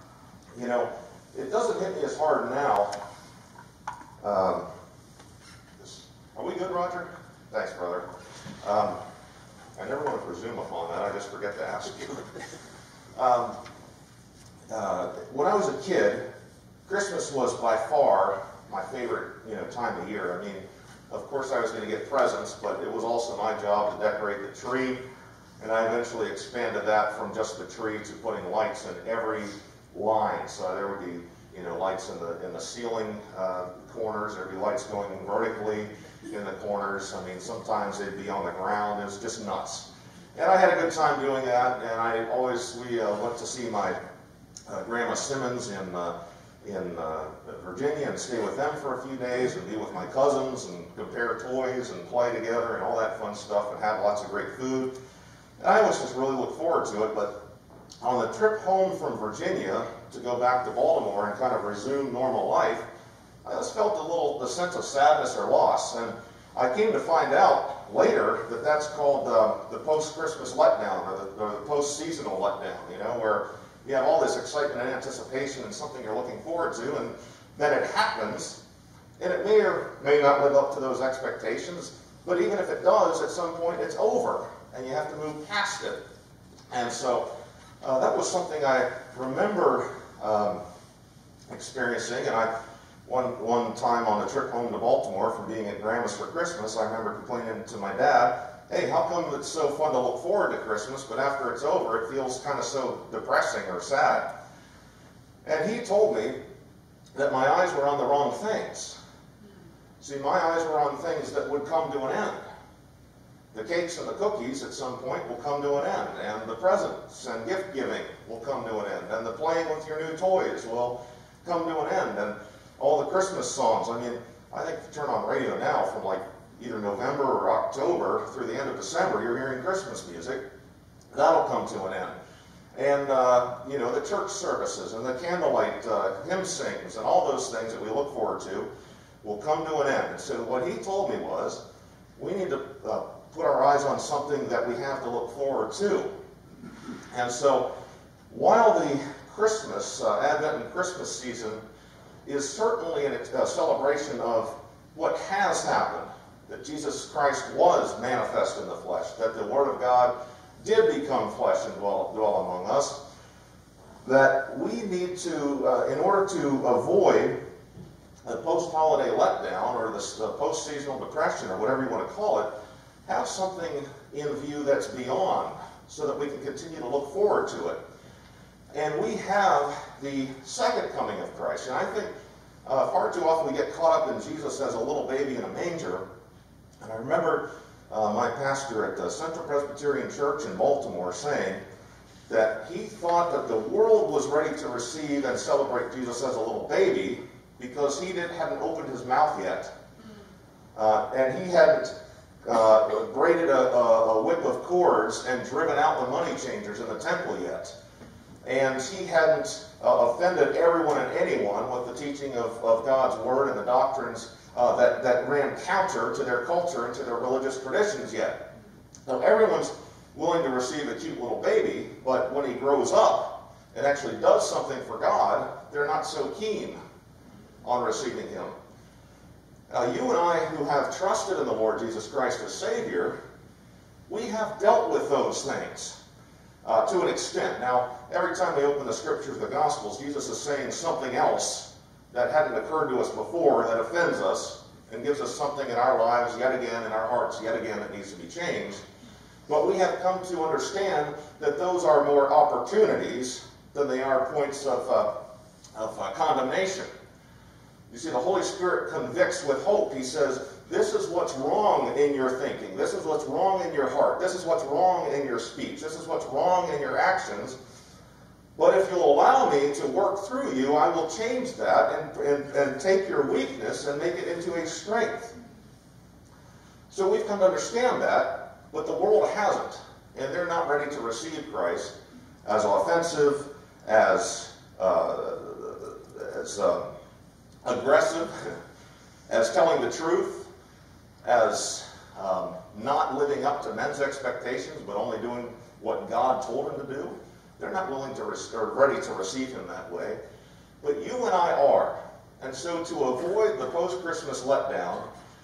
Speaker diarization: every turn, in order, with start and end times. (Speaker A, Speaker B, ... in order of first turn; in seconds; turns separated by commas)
Speaker A: 0.5-2.9, Speaker A: 4.2-4.7, Speaker A: 5.8-8.1, Speaker A: 8.6-9.0, Speaker A: 9.8-12.4, Speaker A: 13.2-13.6, Speaker A: 14.7-16.2, Speaker A: 16.9-25.0, Speaker A: 25.6-44.0, Speaker A: 44.7-54.9, Speaker A: 55.6-57.3, Speaker A: 58.0-62.8, Speaker A: 63.4-78.6, Speaker A: 79.2-86.0, Speaker A: 86.7-87.3, Speaker A: 87.8-90.6, Speaker A: 91.5-92.5, Speaker A: 93.0-104.3, Speaker A: 105.4-106.4, Speaker A: 107.1-109.0, Speaker A: 110.0-112.4, Speaker A: 113.5-130.4, Speaker A: 131.1-132.2, Speaker A: 132.7-138.7, Speaker A: 139.2-141.6, Speaker A: 142.2-146.1, Speaker A: 147.1-147.7, Speaker A: 148.3-151.6, Speaker A: 152.2-163.0, Speaker A: 164.0-167.3, Speaker A: 168.2-172.5, Speaker A: 173.1-177.8, Speaker A: 178.7-182.1, Speaker A: 182.7-186.0, Speaker A: 186.8-191.6, Speaker A: 192.3-199.7, Speaker A: 200.8-201.9, Speaker A: 202.4-207.7, Speaker A: 208.4-218.4, Speaker A: 219.1-226.8, Speaker A: 227.6-228.5, Speaker A: 229.7-233.1, Speaker A: 234.1-236.0, Speaker A: 236.6-248.8, Speaker A: 249.5-255.1, Speaker A: 255.8-256.9, Speaker A: 257.9-267.6, Speaker A: 268.6-275.3, Speaker A: 276.9-281.9, Speaker A: 282.4-286.9, Speaker A: 287.6-288.6, Speaker A: 289.3-290.5, Speaker A: 291.2-300.2, Speaker A: 300.8-305.1